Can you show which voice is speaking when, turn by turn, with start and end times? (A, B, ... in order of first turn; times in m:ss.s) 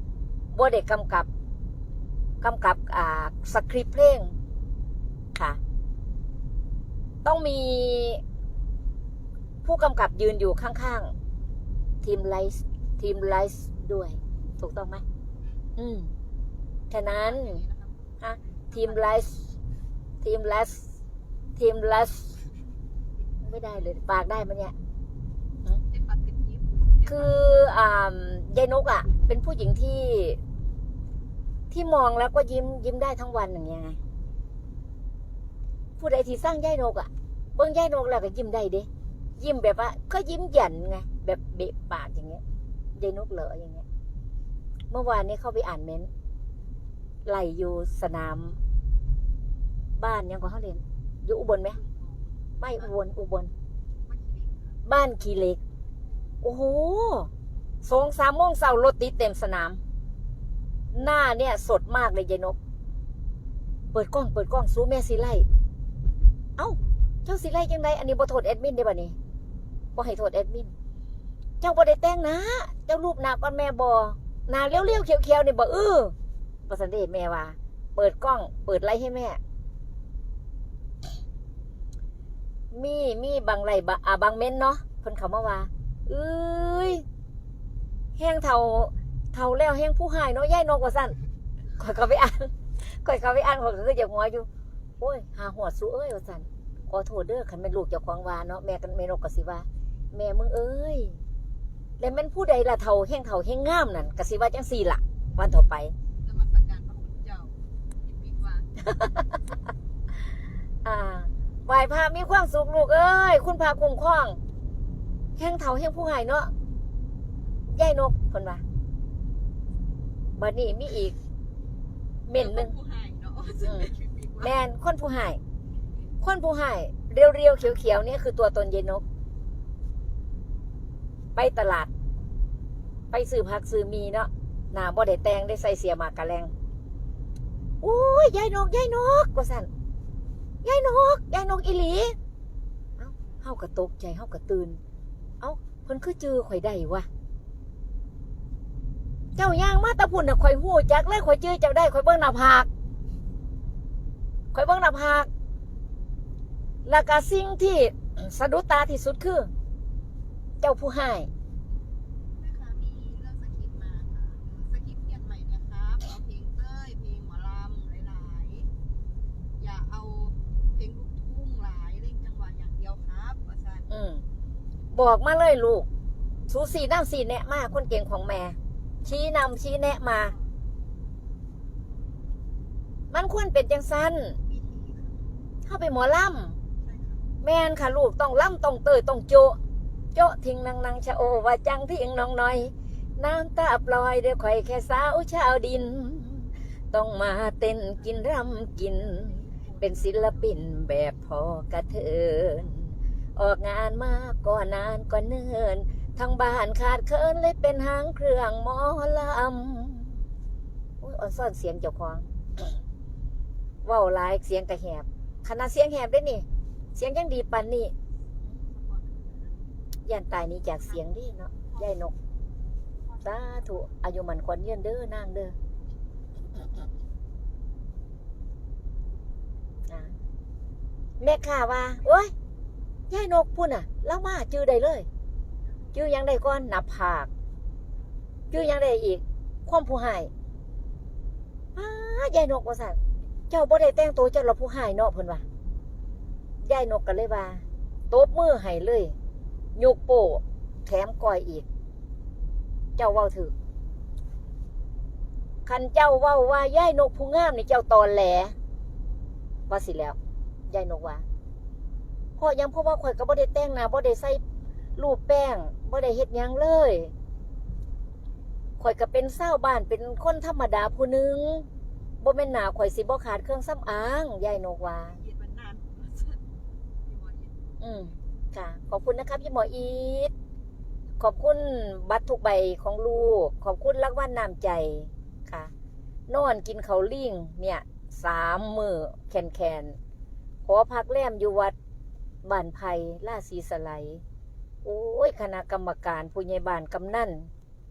0:00.5-0:01.3 A
0:02.4-0:04.3 A
0:05.3-0:05.6 A
0:07.2-0:08.2 A
0:09.6-0:11.1 A
0:12.0-0:15.0 A
0:15.8-0:16.1 A
0:16.9-0:17.6 A
0:17.0-0:19.2 B
0:18.2-0:19.4 A
0:20.2-0:20.8 A
0:21.6-0:22.3 A
0:23.4-0:24.7 A
0:25.9-0:27.3 B
0:27.0-0:30.4 A
0:31.7-0:34.0 A
0:36.0-0:42.4 A
0:43.0-0:43.8 A
0:44.9-0:46.1 A
0:47.2-0:48.6 A
0:50.0-0:51.8 A
0:51.6-0:52.9 B
0:52.6-0:53.5 A
0:54.0-0:54.8 B
0:54.8-0:55.6 A
0:56.4-0:57.3 A
0:57.8-0:59.8 A
1:00.9-1:02.6 A
1:03.9-1:05.4 A
1:06.6-1:09.2 A
1:09.9-1:10.7 A
1:11.6-1:16.1 A
1:16.7-1:19.4 A
1:22.7-1:27.0 A
1:28.2-1:31.1 A
1:31.8-1:34.5 A
1:35.0-1:41.2 A
1:42.0-1:45.9 A
1:46.2-1:48.7 B
1:48.9-1:49.2 A
1:50.8-1:54.4 A
1:55.4-1:56.5 A
1:57.7-1:58.6 A
2:00.4-2:01.1 A
2:02.3-2:02.7 A
2:02.3-2:04.5 B
2:04.4-2:05.4 A
2:06.2-2:09.0 A
2:11.4-2:11.9 A
2:13.1-2:16.5 A
2:17.8-2:19.7 A
2:20.6-2:22.2 A
2:23.0-2:24.8 A
2:25.4-2:27.1 A
2:29.4-2:32.7 A
2:34.5-2:35.3 A
2:36.8-2:39.5 A
2:40.6-2:41.3 A
2:42.4-2:48.7 B
2:49.6-2:53.9 B
2:53.9-2:54.2 A
2:54.9-2:55.9 A
2:56.5-3:00.3 A
3:00.0-3:00.5 B
3:03.1-3:04.4 A
3:04.4-3:05.3 B
3:05.6-3:06.6 A
3:06.8-3:07.3 B
3:07.4-3:09.6 A
3:10.1-3:30.2 A
3:18.0-3:20.6 B
3:31.0-3:32.3 A
3:33.8-3:37.9 A
3:38.4-3:39.7 B
3:40.0-3:42.1 A
3:40.7-3:42.0 B
3:43.0-3:43.9 B
3:43.2-3:45.5 A
3:51.2-3:52.2 B
3:51.2-3:52.3 A
3:53.1-3:55.1 A
3:55.6-3:56.0 B
3:55.9-3:57.3 A
3:58.5-4:00.3 A
4:01.8-4:05.4 A
4:06.6-4:09.1 A
4:09.8-4:11.6 A
4:13.0-4:13.5 A
4:15.6-4:18.5 A
4:19.7-4:20.2 A
4:20.7-4:21.2 A
4:22.4-4:24.4 A
4:25.0-4:27.1 A
4:28.8-4:31.7 A
4:32.2-4:35.2 A
4:34.9-4:36.4 B
4:37.0-4:38.1 B
4:37.8-4:40.3 A
4:41.2-4:45.7 A
4:46.3-4:50.0 A
4:50.6-4:51.7 A
4:52.4-4:54.2 A
4:54.8-4:57.5 A